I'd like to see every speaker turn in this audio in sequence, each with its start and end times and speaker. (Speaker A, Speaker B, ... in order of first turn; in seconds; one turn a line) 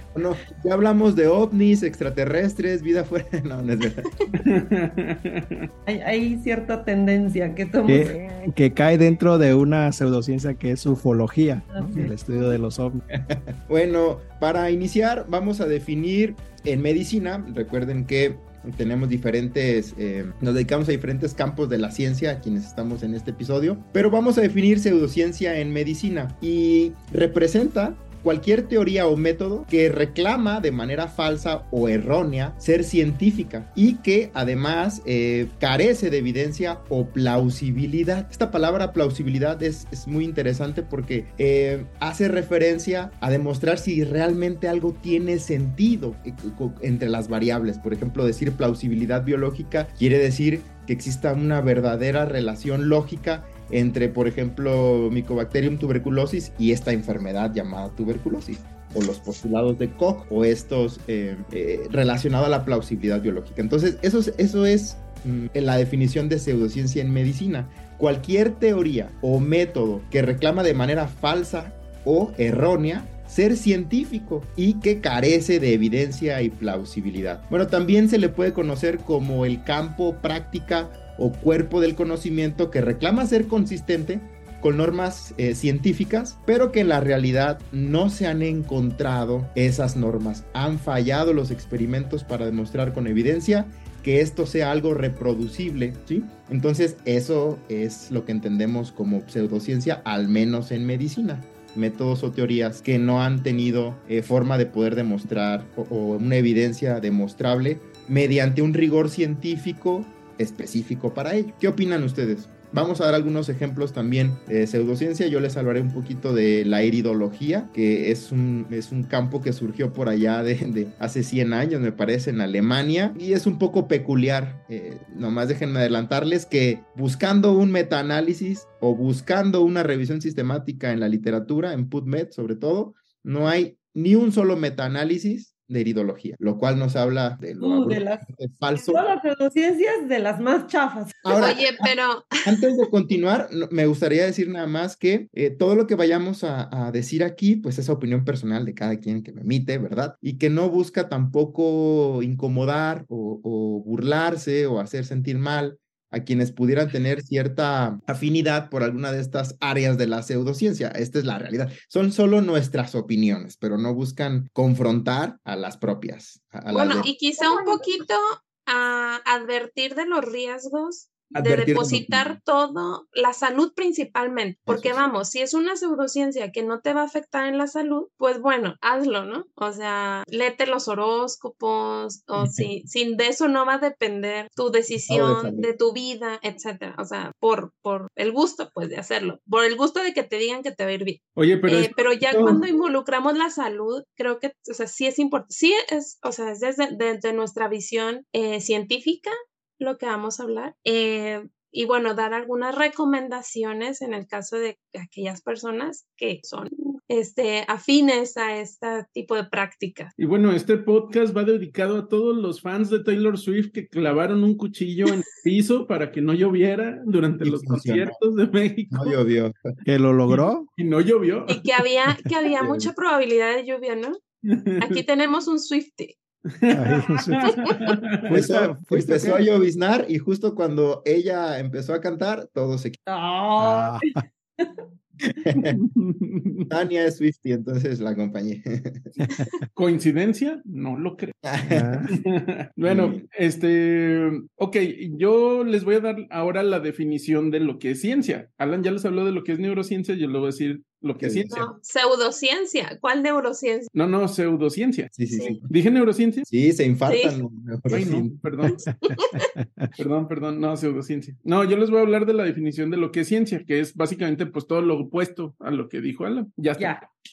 Speaker A: 0.1-4.1
Speaker B: 4.3-5.7
Speaker C: 5.8-8.2
Speaker D: 7.9-13.0
Speaker C: 11.7-12.1
Speaker A: 13.2-139.0
Speaker C: 137.6-138.2
Speaker E: 138.7-139.0
Speaker C: 138.9-141.4
Speaker A: 141.2-141.9
Speaker E: 141.4-142.5
Speaker A: 142.4-167.1
Speaker E: 166.7-210.1
Speaker C: 167.4-167.9
Speaker A: 171.3-172.4
Speaker A: 174.7-175.0
Speaker D: 185.1-185.6
Speaker B: 191.3-192.6
Speaker B: 210.2-219.2
Speaker A: 217.4-218.1
Speaker A: 218.9-219.7
Speaker D: 219.8-220.7
Speaker B: 220.3-221.7
Speaker E: 221.5-224.2
Speaker A: 222.6-222.9
Speaker B: 224.4-225.0
Speaker E: 224.8-226.2
Speaker B: 226.5-228.4
Speaker D: 226.7-229.4
Speaker A: 228.3-233.0
Speaker C: 233.1-234.7
Speaker D: 233.6-234.2
Speaker A: 235.4-235.8
Speaker B: 235.6-236.7
Speaker A: 236.7-239.2
Speaker B: 239.7-241.4
Speaker A: 241.4-242.1
Speaker D: 241.7-242.1
Speaker B: 242.1-251.6
Speaker A: 242.8-243.2
Speaker A: 251.2-251.7
Speaker E: 251.5-253.9
Speaker B: 253.9-255.1
Speaker A: 255.1-255.7
Speaker E: 255.3-255.6
Speaker B: 255.7-256.5
Speaker A: 256.5-258.4
Speaker E: 257.1-257.4
Speaker B: 257.9-258.8
Speaker D: 258.9-259.9
Speaker E: 259.1-259.5
Speaker B: 260.0-267.0
Speaker C: 266.8-267.0